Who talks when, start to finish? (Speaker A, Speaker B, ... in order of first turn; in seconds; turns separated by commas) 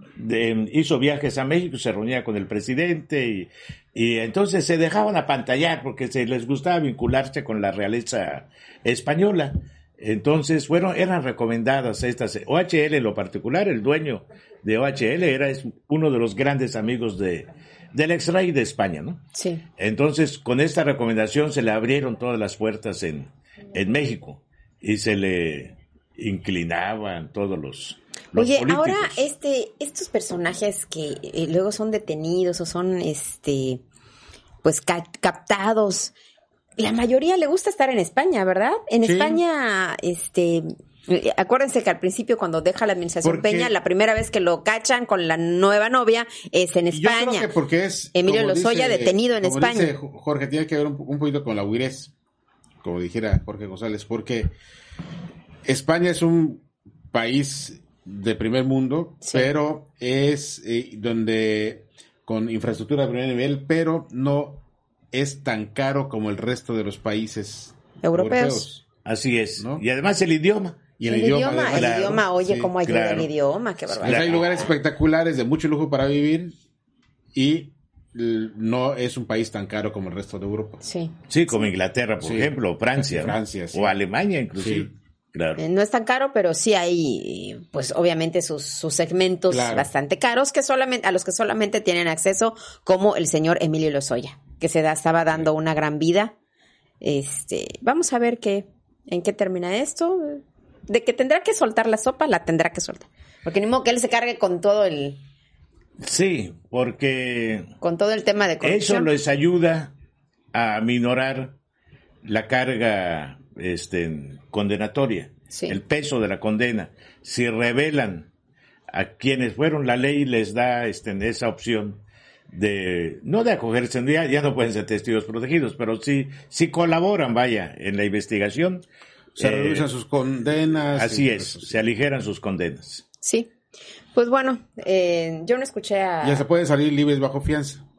Speaker A: 0.2-19.2, Speaker B: 19.3-19.6, Speaker A: 19.8-29.2, Speaker B: 28.3-33.8, Speaker B: 34.6-36.1, Speaker B: 36.8-47.5, Speaker C: 39.0-39.4, Speaker C: 43.2-43.7, Speaker C: 46.9-52.1, Speaker B: 48.1-49.9, Speaker C: 52.8-54.5, Speaker C: 55.6-68.8, Speaker B: 59.2-59.5, Speaker B: 68.0-68.7, Speaker A: 69.0-70.8, Speaker C: 71.0-72.7, Speaker B: 71.0-74.4, Speaker A: 71.7-72.3, Speaker A: 72.8-73.3, Speaker A: 74.0-74.5, Speaker C: 74.0-76.5, Speaker C: 77.3-80.8, Speaker B: 80.8-81.1, Speaker A: 81.3-85.6, Speaker C: 82.2-83.9, Speaker C: 84.6-84.9, Speaker B: 85.6-96.3, Speaker C: 89.5-89.9, Speaker B: 97.0-105.2, Speaker A: 106.0-107.7, Speaker B: 107.8-109.1, Speaker A: 108.6-109.9, Speaker A: 110.5-111.5, Speaker A: 112.2-118.3, Speaker B: 115.5-115.8, Speaker A: 118.9-128.8, Speaker A: 129.4-129.9, Speaker C: 129.4-131.7, Speaker A: 130.9-133.0, Speaker B: 133.2-133.5, Speaker B: 134.1-136.4, Speaker C: 136.2-137.8